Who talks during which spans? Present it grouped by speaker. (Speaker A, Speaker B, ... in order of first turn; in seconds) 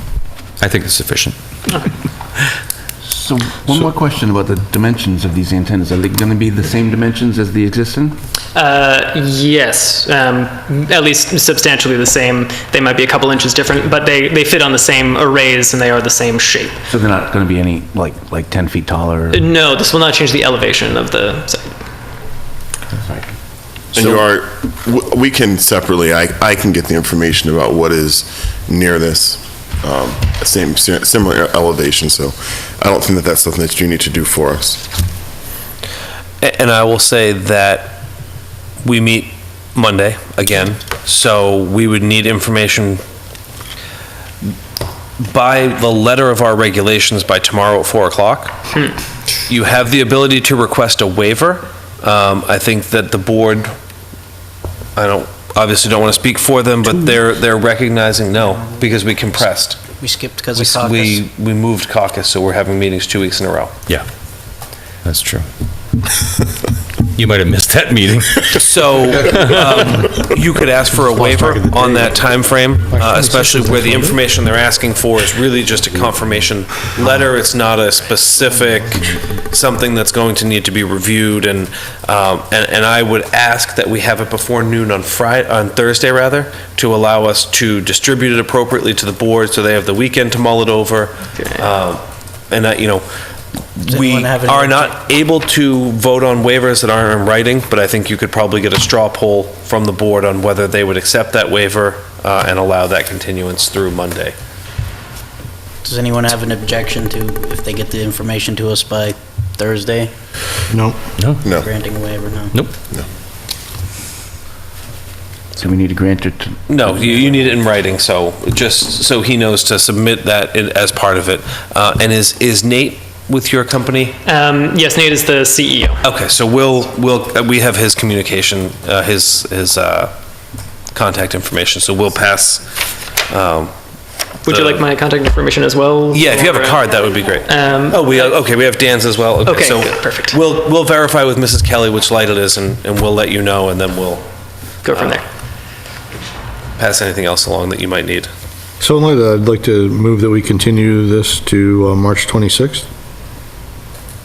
Speaker A: 0.6-1.4, 65.0-65.4, 67.1-68.6
Speaker B: 3.0-8.2, 16.9-19.4, 22.9-23.3, 115.6-117.5
Speaker C: 8.5-16.8, 19.3-21.8, 124.2-126.0, 134.4-138.4, 139.4-140.4, 144.8-145.2
Speaker D: 23.9-34.8
Speaker E: 36.4-38.0, 38.8-43.0, 45.2-48.5, 49.5-53.7, 55.0-59.8, 60.5-63.7, 68.5-93.0, 93.8-104.3, 116.7-124.2, 126.0-130.1, 130.9-132.6, 133.3-133.7, 134.5-134.8, 136.1-144.2, 144.9-145.2, 146.8-148.3
Speaker F: 60.0-61.2, 93.9-94.9, 105.8-110.1, 111.4-112.5
Speaker G: 71.3-71.9, 73.1-74.0, 110.7-111.0, 148.8-152.8